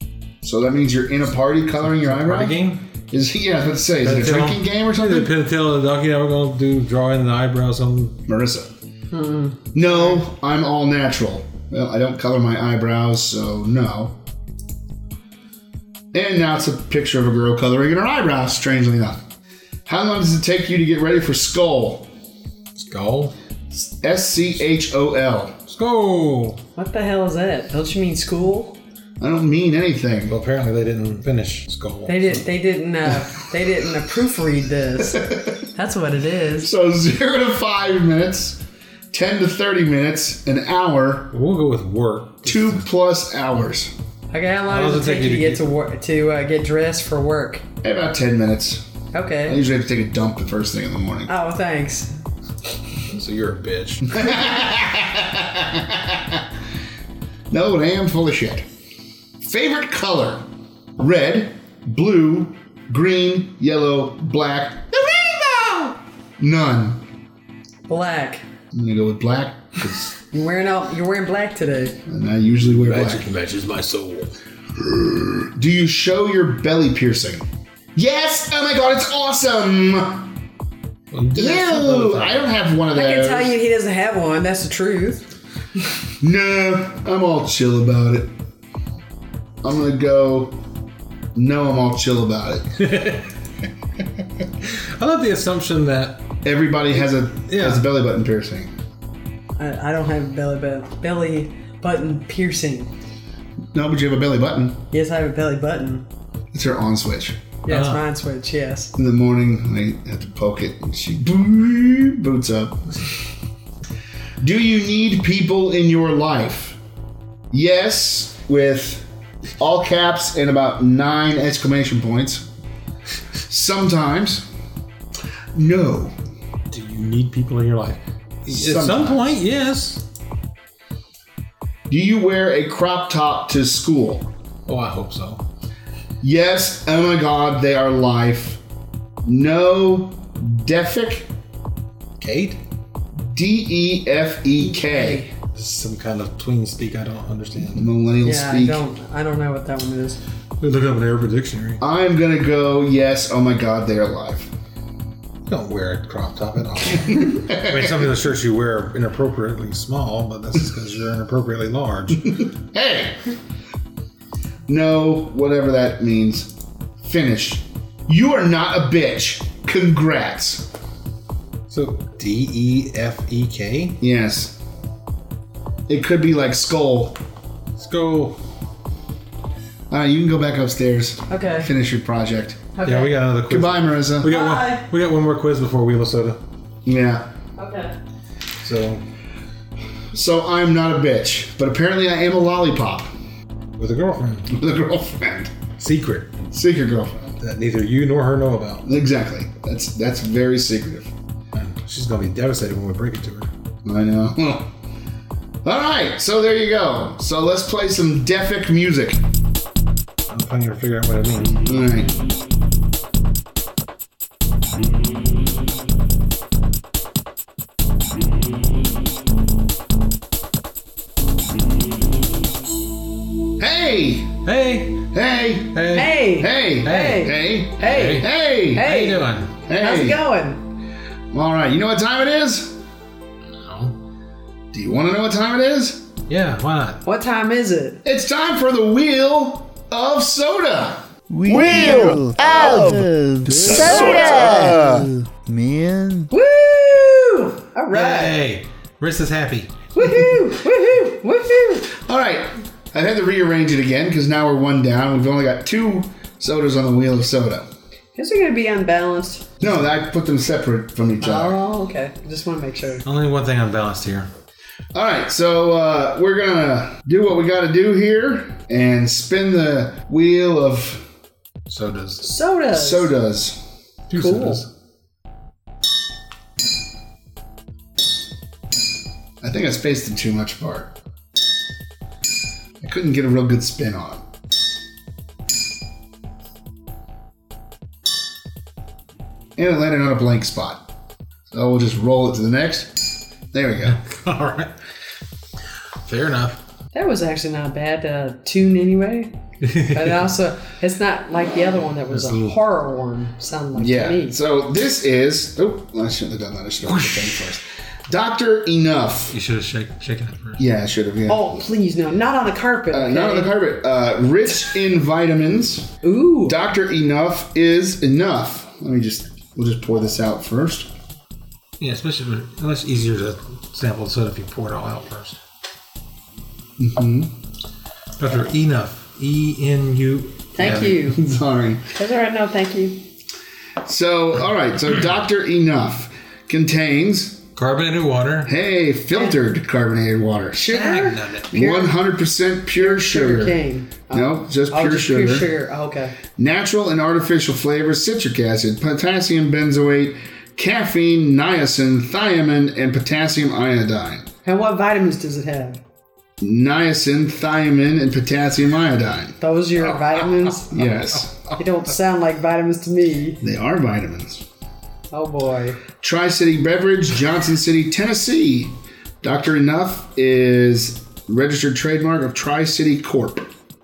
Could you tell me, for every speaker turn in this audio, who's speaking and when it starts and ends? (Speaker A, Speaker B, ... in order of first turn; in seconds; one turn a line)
Speaker A: 0.4-5.3
Speaker B: 1.8-2.8
Speaker B: 4.0-8.2
Speaker A: 8.3-8.7
Speaker C: 9.1-10.2
Speaker A: 9.7-14.2
Speaker A: 16.1-19.2
Speaker A: 19.9-22.1
Speaker B: 22.8-23.3
Speaker A: 23.7-25.5
Speaker B: 25.7-26.6
Speaker C: 26.8-28.8
Speaker A: 29.2-30.4
Speaker B: 30.3-32.4
Speaker C: 32.1-36.7
Speaker A: 35.0-35.6
Speaker A: 36.6-38.6
Speaker A: 39.1-41.3
Speaker B: 41.3-42.9
Speaker A: 42.4-43.9
Speaker C: 44.3-47.6
Speaker B: 44.7-45.6
Speaker A: 47.8-48.8
Speaker C: 49.1-49.6
Speaker A: 49.5-51.3
Speaker C: 51.3-52.1
Speaker B: 53.1-54.2
Speaker A: 54.1-56.5
Speaker A: 57.5-58.6
Speaker A: 59.4-60.4
Speaker A: 61.0-67.0
Speaker C: 67.9-68.4
Speaker A: 68.7-70.2
Speaker C: 70.3-72.0
Speaker A: 72.1-73.3
Speaker B: 72.8-74.3
Speaker A: 74.8-80.3
Speaker B: 81.1-82.5
Speaker A: 81.3-83.6
Speaker C: 82.9-85.3
Speaker A: 86.2-88.3
Speaker A: 89.6-90.6
Speaker A: 91.3-92.7
Speaker B: 92.8-93.3
Speaker B: 94.6-96.2
Speaker A: 96.4-98.7
Speaker B: 97.5-97.9
Speaker C: 99.6-102.9
Speaker A: 103.7-104.8
Speaker C: 104.9-106.0
Speaker A: 106.5-107.4
Speaker C: 107.6-108.9
Speaker B: 107.7-108.0
Speaker A: 109.0-113.2
Speaker A: 114.4-116.8
Speaker A: 117.5-119.1
Speaker A: 119.6-122.4
Speaker A: 123.5-124.5
Speaker A: 125.5-126.1
Speaker B: 126.7-130.0
Speaker A: 128.5-129.3
Speaker A: 131.9-134.3
Speaker B: 134.7-135.4
Speaker A: 136.2-138.6
Speaker A: 139.2-141.3
Speaker B: 142.2-142.6
Speaker A: 143.2-145.3
Speaker C: 144.7-145.3
Speaker B: 145.5-147.9
Speaker A: 147.7-148.8
Speaker C: 148.2-150.2
Speaker B: 150.6-151.8
Speaker A: 151.8-154.5
Speaker B: 155.5-162.4
Speaker A: 157.0-158.1
Speaker A: 162.3-163.3
Speaker A: 164.7-170.7
Speaker B: 171.7-174.0
Speaker A: 174.0-174.5
Speaker A: 175.9-177.2
Speaker B: 177.8-178.4
Speaker A: 179.9-182.6
Speaker C: 181.3-181.7
Speaker C: 182.7-183.2
Speaker B: 182.8-186.4
Speaker A: 183.5-184.3
Speaker C: 184.2-184.9
Speaker A: 186.8-187.3
Speaker C: 187.6-187.9
Speaker B: 188.6-189.0
Speaker A: 190.1-193.1
Speaker B: 193.8-194.5
Speaker A: 194.5-195.5
Speaker B: 195.8-196.4
Speaker A: 196.5-197.3
Speaker B: 197.4-198.9
Speaker A: 198.8-201.1
Speaker B: 201.5-203.5
Speaker A: 203.8-204.7
Speaker A: 205.6-209.2
Speaker B: 210.3-211.6
Speaker A: 211.7-212.1
Speaker A: 223.6-224.4
Speaker B: 224.4-225.0
Speaker A: 225.0-228.9
Speaker B: 225.7-226.3
Speaker C: 225.9-230.7
Speaker B: 226.8-229.5
Speaker A: 229.7-230.2
Speaker A: 231.3-232.8
Speaker B: 233.6-233.9
Speaker A: 234.7-236.0
Speaker B: 236.3-237.0
Speaker C: 237.0-238.0
Speaker A: 238.0-245.1
Speaker D: 241.3-246.3
Speaker C: 241.5-243.0
Speaker C: 243.6-244.9
Speaker C: 246.3-248.4
Speaker B: 247.9-249.8
Speaker C: 249.9-251.9
Speaker A: 251.9-257.7
Speaker C: 258.1-259.5
Speaker A: 259.6-261.6
Speaker C: 261.2-263.0
Speaker B: 263.0-264.3
Speaker A: 264.9-271.0
Speaker B: 271.7-272.3
Speaker C: 272.2-273.1
Speaker A: 272.7-273.6
Speaker B: 274.1-274.7
Speaker C: 274.1-274.6
Speaker A: 279.4-280.9
Speaker A: 282.8-284.2
Speaker A: 289.6-290.8
Speaker A: 291.5-294.0
Speaker B: 293.8-294.7
Speaker B: 296.0-296.6
Speaker C: 296.9-304.4
Speaker B: 299.6-300.2
Speaker B: 302.1-302.5
Speaker A: 303.8-309.3
Speaker B: 306.9-307.2
Speaker B: 309.3-310.6
Speaker A: 310.6-311.6
Speaker C: 311.3-313.5
Speaker A: 312.9-315.9
Speaker C: 316.0-316.6
Speaker A: 316.4-320.9
Speaker B: 321.8-325.4
Speaker A: 326.8-327.3
Speaker B: 328.2-331.0
Speaker C: 330.5-331.2
Speaker A: 330.6-331.9
Speaker C: 331.9-333.0
Speaker A: 333.8-337.4
Speaker B: 337.5-338.5
Speaker A: 338.4-340.9
Speaker C: 340.5-342.0
Speaker B: 340.7-341.5
Speaker A: 341.5-345.5
Speaker C: 342.8-346.2
Speaker A: 346.4-354.3
Speaker C: 354.4-355.8
Speaker A: 356.4-359.4
Speaker C: 359.4-360.8
Speaker A: 360.7-361.5
Speaker C: 361.5-363.4
Speaker A: 363.4-364.4
Speaker C: 365.1-365.8
Speaker A: 366.0-373.5